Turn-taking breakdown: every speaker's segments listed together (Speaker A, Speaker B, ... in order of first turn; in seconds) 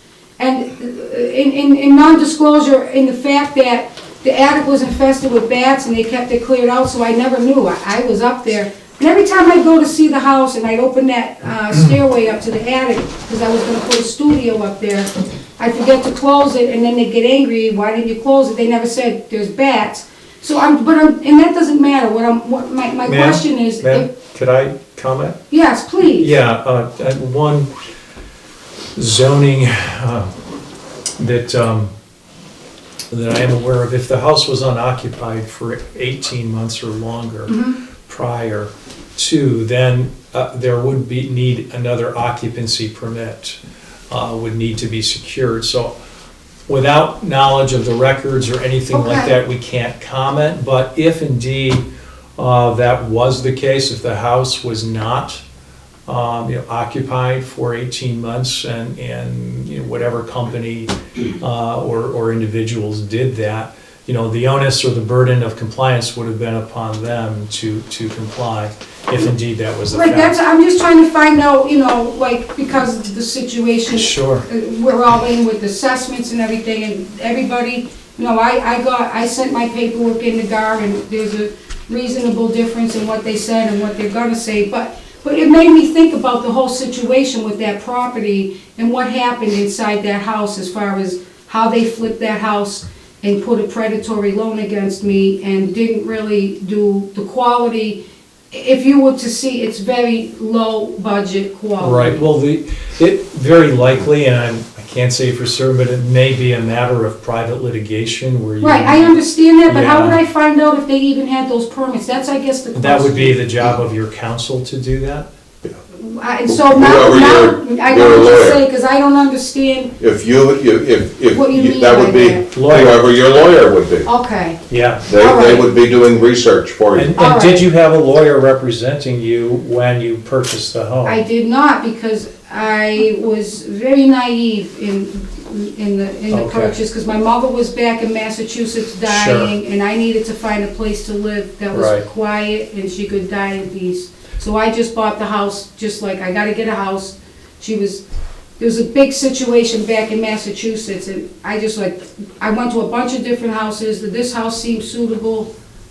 Speaker A: 0.4-24.1, 25.5-26.3, 37.5-37.8, 48.9-49.3, 69.9-102.2, 108.6-113.4, 115.9-119.9, 121.3-122.4, 124.0-124.6, 125.1-125.7, 127.2-127.6, 131.0-148.0, 148.6-155.5
Speaker B: 23.0-25.4, 26.2-27.7, 28.9-30.3, 31.2-31.9, 33.1-43.6, 44.1-45.9, 46.7-51.8, 52.4-55.4, 56.1-70.3, 73.9-74.5, 101.8-110.2, 112.7-115.3, 122.5-123.1, 124.7-125.1, 126.9-131.2, 136.3-136.7, 139.1-139.5, 141.7-142.0
Speaker C: 116.5-118.6, 120.0-124.1, 125.1-127.1